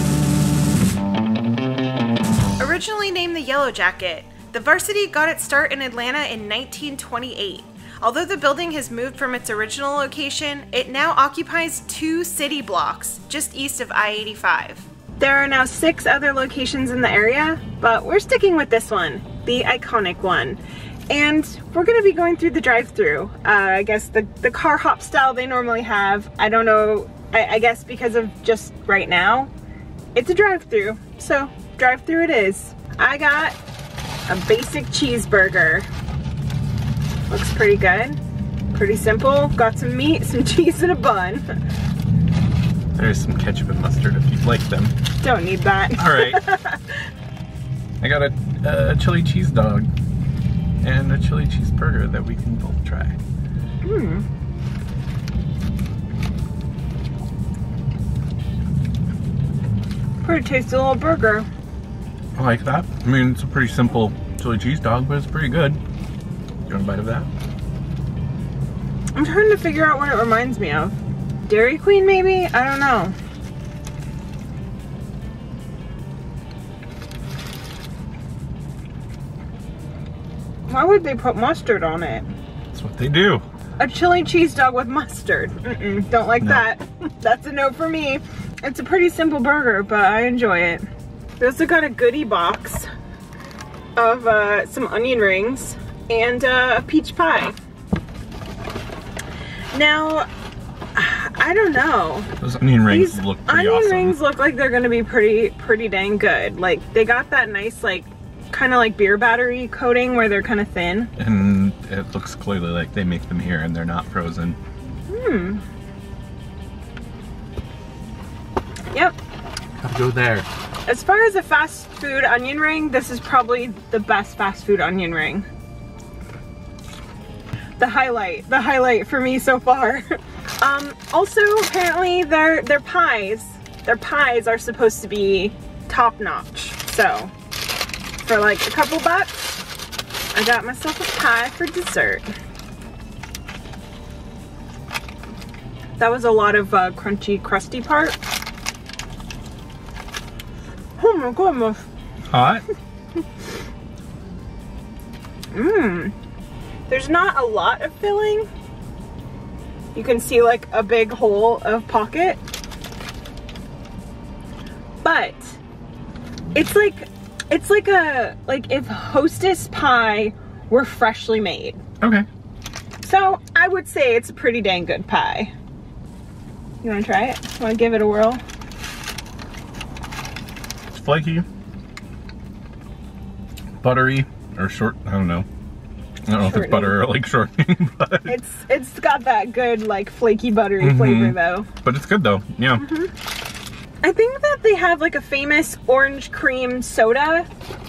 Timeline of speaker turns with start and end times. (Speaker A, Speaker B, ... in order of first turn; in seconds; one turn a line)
Speaker A: 2.6-29.5
Speaker A: 30.1-33.6
Speaker A: 34.3-35.9
Speaker A: 37.3-38.2
Speaker A: 38.7-41.5
Speaker B: 42.9-44.9
Speaker A: 45.2-46.8
Speaker B: 46.0-46.4
Speaker B: 48.0-49.9
Speaker B: 50.8-53.2
Speaker A: 53.8-54.2
Speaker A: 60.2-61.5
Speaker B: 62.4-65.8
Speaker B: 66.7-67.3
Speaker A: 69.1-73.1
Speaker A: 80.7-82.2
Speaker B: 82.7-83.4
Speaker A: 83.8-90.8
Speaker B: 86.4-86.7
Speaker A: 91.4-92.9
Speaker A: 94.0-97.5
Speaker A: 99.7-100.3
Speaker A: 100.9-102.3
Speaker B: 102.4-104.2
Speaker A: 102.9-111.1
Speaker B: 111.2-114.6
Speaker A: 115.1-115.6
Speaker B: 119.8-120.5
Speaker A: 120.8-125.5
Speaker A: 127.8-137.3
Speaker A: 138.2-139.6
Speaker A: 140.3-142.3
Speaker A: 146.0-148.2
Speaker A: 151.0-151.9
Speaker B: 152.3-152.6
Speaker A: 155.5-156.1
Speaker A: 156.9-158.5
Speaker A: 159.9-162.4
Speaker A: 165.0-165.6
Speaker A: 166.5-171.8
Speaker B: 172.0-172.2
Speaker A: 173.0-175.5
Speaker A: 176.8-178.4
Speaker B: 180.9-181.4
Speaker B: 183.8-185.4
Speaker B: 186.3-188.3
Speaker A: 186.3-187.0
Speaker A: 188.2-191.7
Speaker B: 190.8-192.8
Speaker A: 192.8-193.1
Speaker A: 194.0-197.5